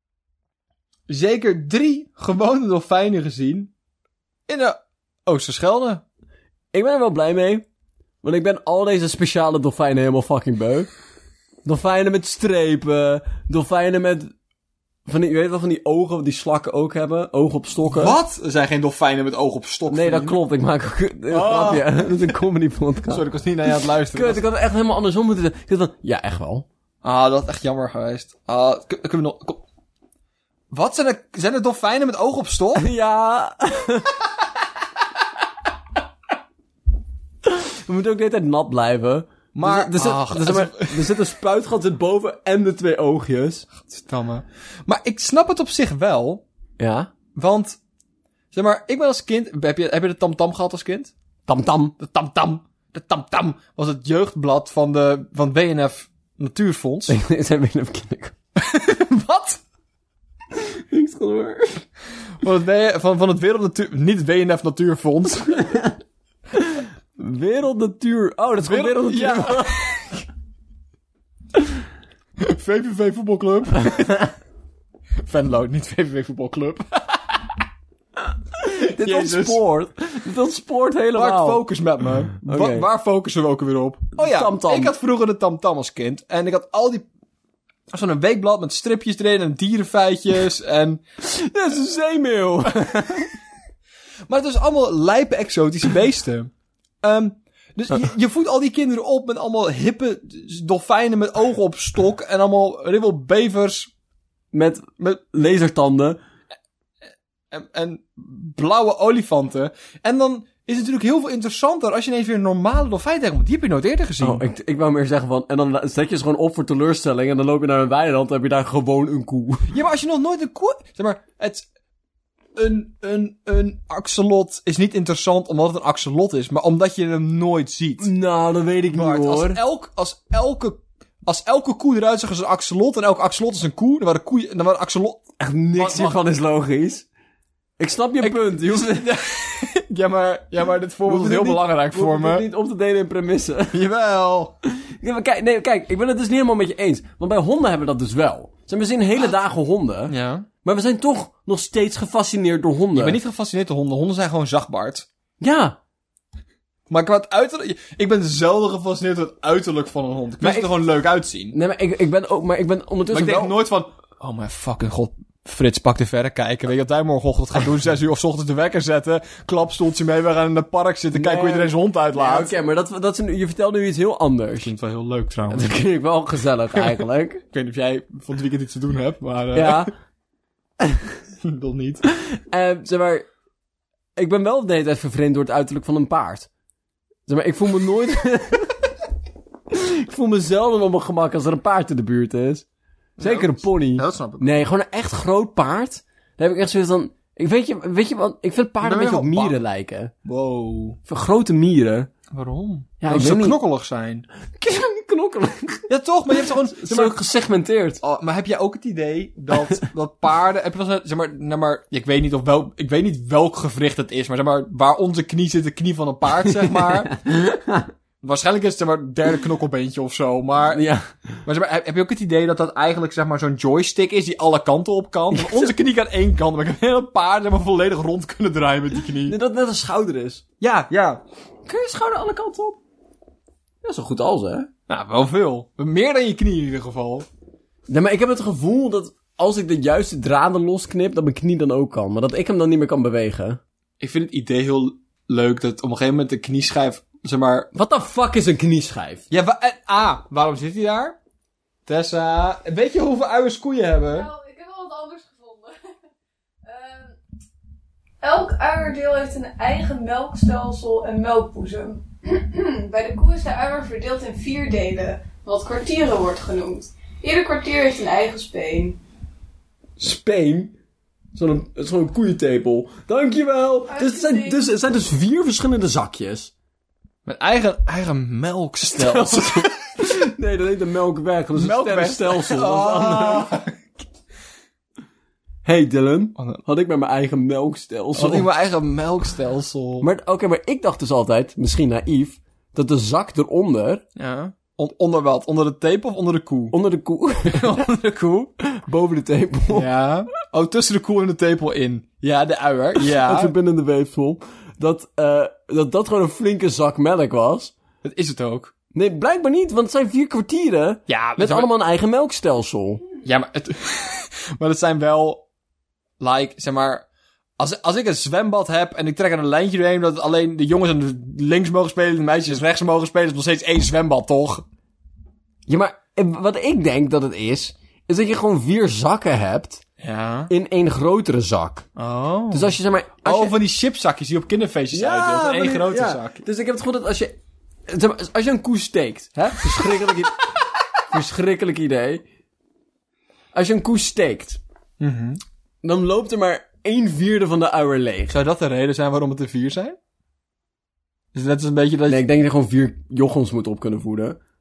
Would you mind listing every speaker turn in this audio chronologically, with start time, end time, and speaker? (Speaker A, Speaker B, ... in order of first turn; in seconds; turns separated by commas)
Speaker A: 1.1-3.7, Speaker A: 4.5-6.0, Speaker B: 6.7-7.7, Speaker B: 8.2-10.9, Speaker B: 11.7-14.3, Speaker B: 15.1-18.2, Speaker A: 17.9-20.4, Speaker B: 19.9-23.2, Speaker A: 21.3-22.1, Speaker A: 23.1-24.4, Speaker B: 24.1-26.7, Speaker A: 27.0-29.6, Speaker A: 30.7-32.9, Speaker B: 32.8-34.2, Speaker B: 37.4-43.7, Speaker A: 39.5-41.2, Speaker A: 43.8-46.4, Speaker B: 46.8-47.1, Speaker A: 47.4-47.8, Speaker A: 48.5-51.1, Speaker B: 51.5-52.0, Speaker A: 52.0-57.2, Speaker B: 57.1-58.3, Speaker A: 58.6-59.6, Speaker B: 60.5-61.9, Speaker A: 62.4-65.7, Speaker B: 65.7-65.9, Speaker B: 66.5-69.8, Speaker A: 68.6-70.2, Speaker A: 72.4-74.2, Speaker A: 75.2-77.5, Speaker B: 78.6-81.6, Speaker A: 79.0-79.6, Speaker A: 81.2-87.1, Speaker B: 82.4-82.9, Speaker B: 84.2-84.9, Speaker A: 87.9-91.0, Speaker B: 91.2-93.3, Speaker A: 94.3-103.9, Speaker B: 104.5-106.2, Speaker A: 107.5-114.4, Speaker B: 114.2-119.7, Speaker A: 119.7-121.7, Speaker A: 122.6-128.1, Speaker B: 128.0-129.6, Speaker A: 128.9-136.2, Speaker B: 135.4-137.1, Speaker B: 137.8-139.1, Speaker A: 138.2-142.5, Speaker B: 141.1-143.8, Speaker A: 143.7-144.5, Speaker B: 144.7-153.2, Speaker A: 150.1-150.5, Speaker A: 152.9-155.1, Speaker B: 155.4-155.8, Speaker A: 156.9-161.6, Speaker B: 160.4-160.7, Speaker B: 161.5-163.6, Speaker A: 163.1-172.6, Speaker B: 171.1-174.7, Speaker A: 174.6-175.7, Speaker B: 175.5-177.4, Speaker A: 177.5-179.9, Speaker B: 179.5-179.9, Speaker A: 181.4-182.0, Speaker B: 182.2-183.3, Speaker B: 184.2-186.5, Speaker B: 187.3-188.9, Speaker B: 189.7-192.7, Speaker A: 193.2-194.6, Speaker B: 193.2-200.1, Speaker A: 198.8-199.6, Speaker A: 200.2-201.0, Speaker B: 201.1-202.1, Speaker A: 202.3-204.3, Speaker B: 203.0-203.6, Speaker B: 204.6-208.0, Speaker A: 205.9-207.2, Speaker A: 208.0-217.1, Speaker B: 216.5-217.9, Speaker A: 218.2-220.9, Speaker B: 220.7-221.1, Speaker A: 221.4-229.4, Speaker B: 225.3-225.7, Speaker B: 229.2-230.4, Speaker A: 230.6-231.2, Speaker B: 231.7-232.8, Speaker B: 233.8-234.7, Speaker A: 234.9-237.3, Speaker B: 237.9-243.6, Speaker A: 244.0-247.7, Speaker B: 247.7-249.2, Speaker A: 249.3-251.2, Speaker A: 251.9-254.3, Speaker C: 254.1-255.7, Speaker C: 256.6-257.2, Speaker C: 258.2-269.0, Speaker B: 270.0-270.7, Speaker B: 271.4-276.5, Speaker C: 273.9-274.6, Speaker A: 277.3-279.8, Speaker B: 278.9-283.6, Speaker A: 281.6-283.8, Speaker B: 285.6-288.5, Speaker A: 288.2-290.1, Speaker B: 290.0-294.0, Speaker A: 294.2-296.8, Speaker B: 296.7-297.8, Speaker A: 297.5-298.5, Speaker B: 298.6-299.9, Speaker A: 299.7-303.5, Speaker B: 303.0-307.7, Speaker A: 308.0-308.7, Speaker B: 308.9-313.0, Speaker A: 311.1-311.7, Speaker A: 313.2-315.4, Speaker A: 316.2-317.1, Speaker A: 317.6-324.6, Speaker B: 325.7-329.8, Speaker A: 330.0-330.5, Speaker B: 330.5-331.9, Speaker A: 332.0-336.4, Speaker B: 332.5-333.6, Speaker B: 334.9-337.4, Speaker B: 337.9-340.5, Speaker B: 341.1-342.2, Speaker B: 343.5-344.6, Speaker A: 345.0-345.4, Speaker B: 345.8-348.4, Speaker A: 348.3-350.0, Speaker A: 351.3-352.2, Speaker B: 352.1-354.4